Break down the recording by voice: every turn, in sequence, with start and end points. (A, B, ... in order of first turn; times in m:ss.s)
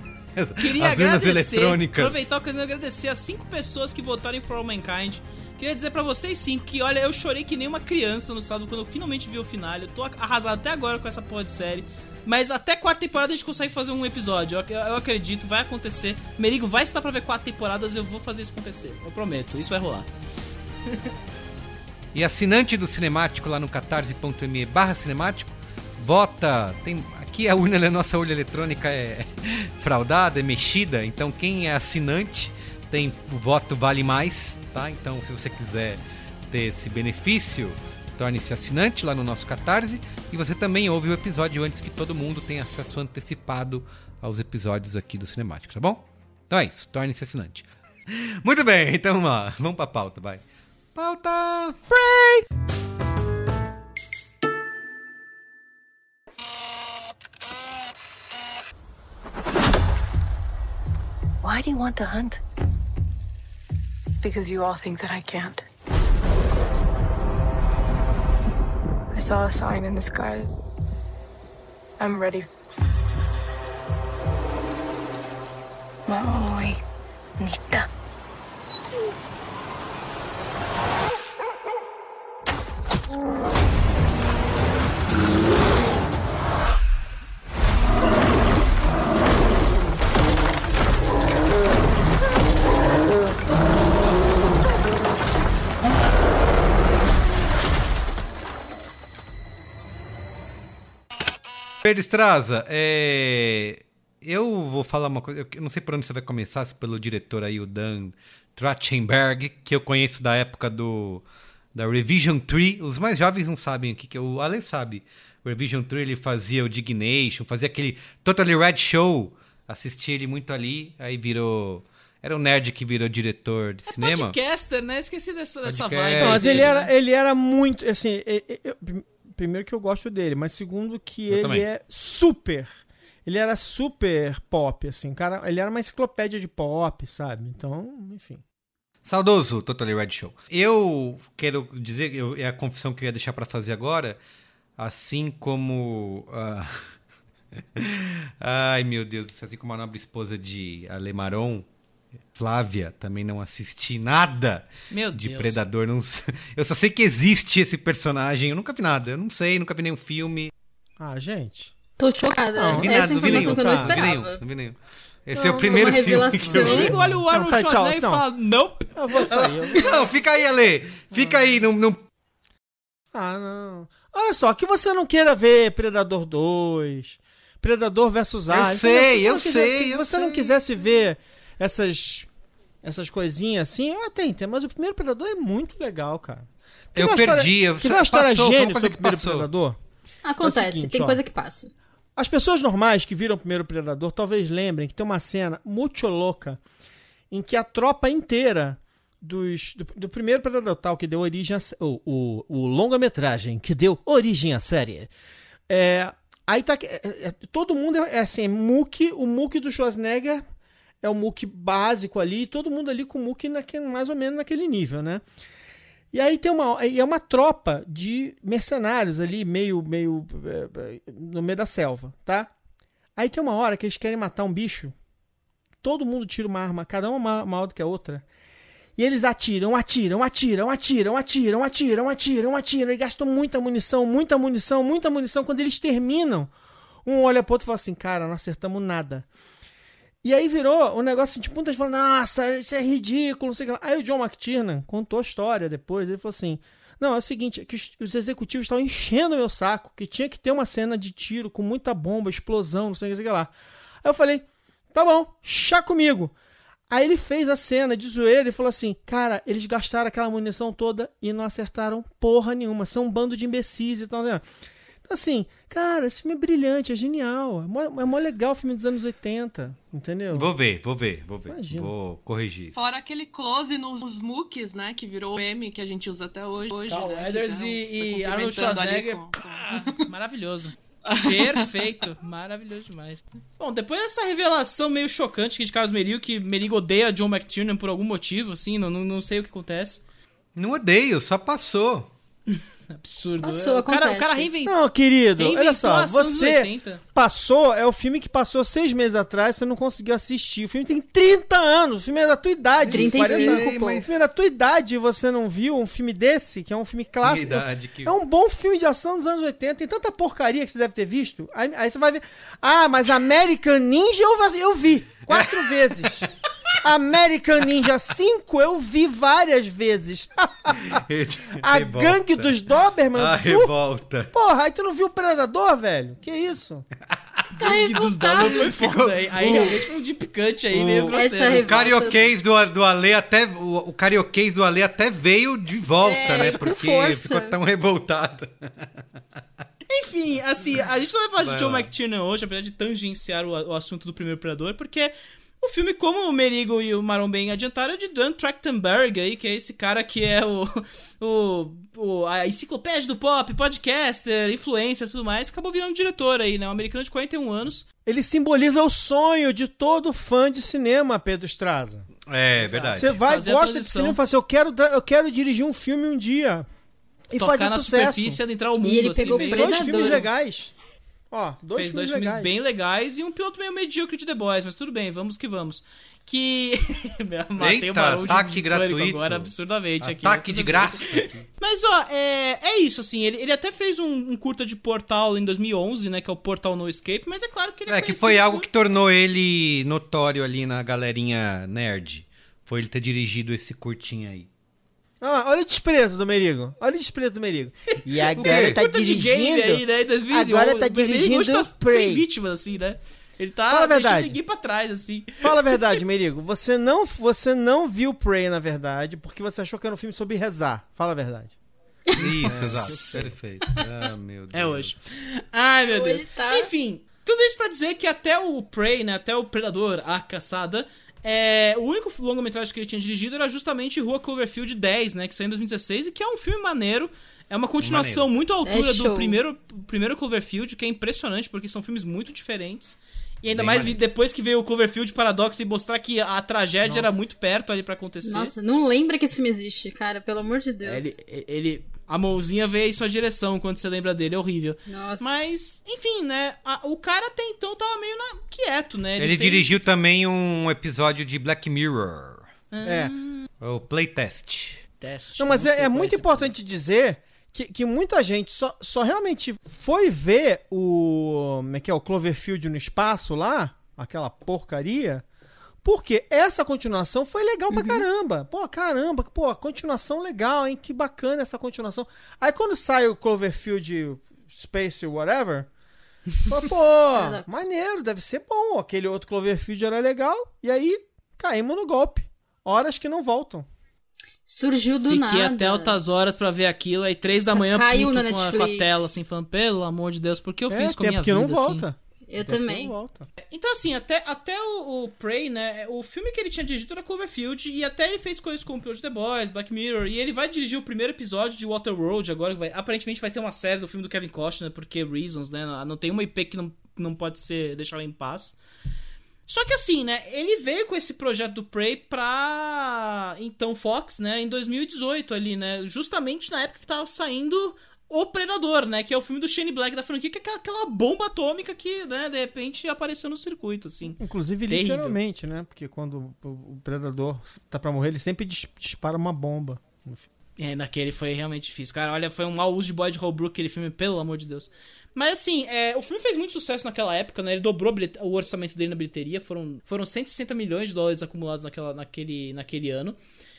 0:00.4-0:02.3 A
0:00.6-0:20.1 B
0:22.1-0:50.4 A
0:50.9-0:51.8 A
0:51.9-0:52.4 C
1:01.4-1:02.4 D
1:04.2-1:05.6 D
1:09.1-1:10.5 D
1:12.0-1:12.5 D
1:16.1-1:16.8 D
1:17.4-1:17.9 D
1:41.8-1:51.2 A
1:51.8-2:04.4 A
2:03.9-2:06.9 B
2:05.6-2:06.7 A
2:06.2-2:18.4 C
2:11.3-2:11.7 A
2:19.0-2:24.2 A
2:24.8-2:26.9 A
2:27.8-2:31.7 A
2:32.4-2:40.5 A
2:34.9-2:35.6 B
2:41.0-2:41.8 C
2:42.0-2:44.4 E
2:42.6-2:44.0 C
2:42.6-2:47.0 A
2:45.3-2:48.2 C
2:45.4-2:46.9 E
2:46.6-2:49.7 B
2:48.9-2:50.1 C
2:49.3-2:52.0 A
2:53.1-3:02.3 C
2:58.5-3:00.5 A
3:02.8-3:09.8 C
3:07.0-3:09.5 A
3:10.2-3:11.7 E
3:10.4-3:11.2 C
3:12.2-3:16.6 C
3:17.3-3:25.1 C
3:25.7-3:30.4 C
3:31.0-3:35.2 C
3:36.1-3:42.5 C
3:43.2-3:45.0 C
3:45.8-3:48.2 C
3:49.0-3:56.5 C
3:57.0-3:59.3 C
4:00.2-4:13.5 C
4:14.0-4:16.3 C
4:16.9-4:24.4 C
4:25.0-4:30.5 C
4:30.3-4:32.8 A
4:31.5-4:31.9 C
4:32.8-4:40.0 F
4:36.9-4:50.0 B
4:41.1-4:41.7 F
4:50.6-4:52.1 A
4:53.0-4:54.8 B
4:53.4-4:54.5 E
4:54.6-5:21.0 C
4:55.4-4:57.0 B
5:02.8-5:04.2 A
5:02.9-5:04.0 E
5:07.2-5:08.1 A
5:15.3-5:16.2 A
5:20.9-5:22.5 A
5:21.6-5:23.7 C
5:23.1-5:24.3 A
5:24.3-5:26.8 C
5:27.6-5:28.7 E
5:27.6-5:29.7 A
5:27.7-5:31.8 B
5:29.4-5:29.7 C
5:30.7-5:38.9 A
5:31.1-5:32.2 E
5:36.0-5:37.6 E
5:39.9-5:57.9 B
5:41.4-5:41.9 A
5:58.0-6:02.1 C
6:02.3-6:03.1 A
6:02.6-6:04.2 B
6:02.9-6:06.7 C
6:07.3-6:08.4 C
6:07.4-6:10.2 B
6:08.8-6:10.2 E
6:09.3-6:10.7 C
6:11.3-6:12.6 C
6:11.8-6:28.7 B
6:17.6-6:21.4 A
6:27.9-6:34.5 A
6:35.2-6:42.2 C
6:38.4-6:38.8 A
6:38.4-6:45.9 B
6:43.7-6:44.4 C
6:45.4-6:51.6 C
6:52.2-6:54.9 A
6:52.4-6:53.3 B
6:52.4-6:53.3 C
6:54.5-7:18.5 B
6:55.9-6:56.7 E
7:07.8-7:08.3 A
7:08.6-7:09.4 E
7:13.5-7:14.0 A
7:16.9-7:17.2 C
7:18.2-7:21.2 E
7:20.8-7:29.8 B
7:24.9-7:25.5 E
7:29.2-7:32.5 A
7:32.7-7:33.5 B
7:32.8-7:33.1 C
7:33.6-7:34.8 A
7:35.0-7:36.5 B
7:35.4-7:45.2 C
7:45.8-7:55.7 C
7:56.5-8:03.7 C
7:57.1-7:57.6 E
8:04.5-8:06.0 E
8:05.0-8:11.9 B
8:07.5-8:09.2 E
8:10.7-8:13.3 C
8:12.3-8:12.9 E
8:13.5-8:28.6 B
8:29.5-8:45.2 B
8:44.1-8:50.3 C
8:50.6-9:03.2 B